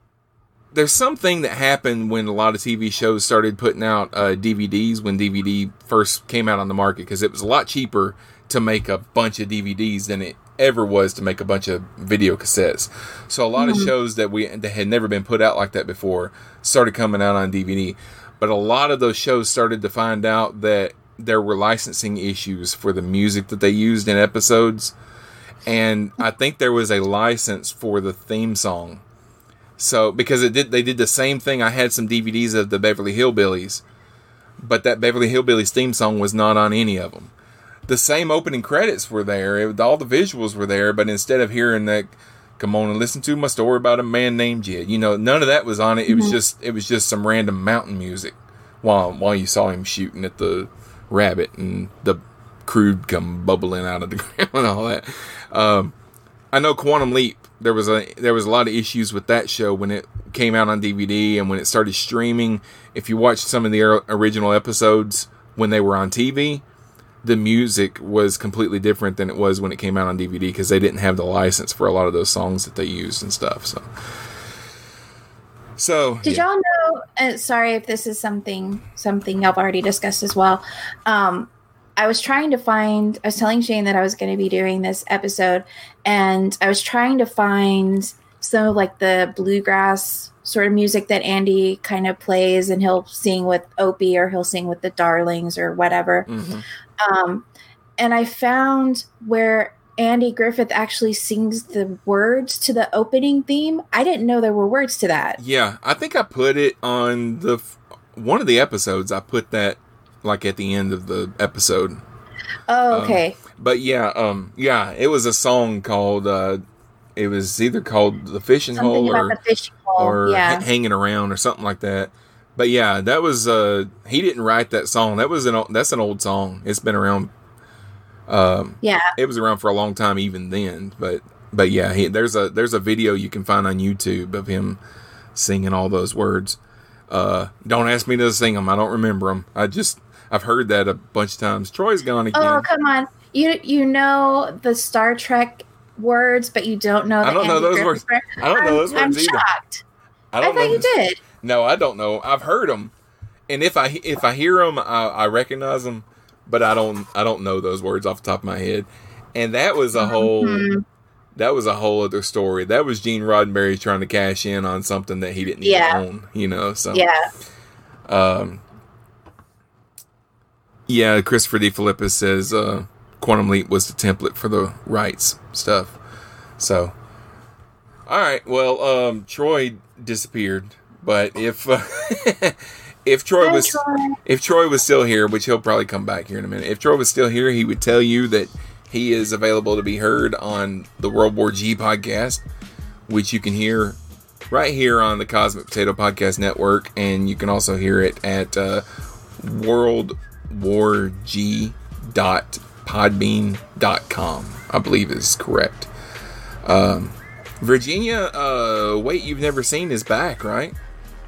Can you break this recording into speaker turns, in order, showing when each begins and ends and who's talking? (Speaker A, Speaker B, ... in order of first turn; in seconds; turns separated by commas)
Speaker A: 0.7-24.9, Speaker B: 13.6-13.9, Speaker A: 25.7-29.0, Speaker A: 29.8-33.8, Speaker A: 34.6-37.3, Speaker A: 37.9-55.9, Speaker B: 46.1-46.4, Speaker A: 56.5-66.6, Speaker A: 67.2-73.8, Speaker A: 75.8-76.4, Speaker B: 76.2-96.3, Speaker A: 96.3-96.7, Speaker B: 97.0-97.5, Speaker B: 98.0-105.4, Speaker A: 105.4-112.0, Speaker B: 112.7-113.4, Speaker A: 112.9-116.6, Speaker A: 117.2-119.4, Speaker B: 118.8-120.6, Speaker A: 120.0-127.3, Speaker A: 128.3-134.8, Speaker B: 128.8-129.1, Speaker A: 135.4-136.6, Speaker A: 137.1-142.7, Speaker B: 142.3-149.8, Speaker A: 147.2-149.4, Speaker A: 150.3-152.9, Speaker B: 150.4-151.2, Speaker A: 153.5-160.7, Speaker B: 160.0-160.8, Speaker A: 161.4-167.1, Speaker B: 165.6-166.0, Speaker B: 166.9-167.2, Speaker A: 168.1-168.6, Speaker A: 170.9-176.0, Speaker A: 176.6-176.9, Speaker A: 178.1-192.4, Speaker B: 183.4-184.2, Speaker A: 193.1-194.0, Speaker A: 194.5-198.8, Speaker A: 199.4-205.9, Speaker A: 206.7-210.8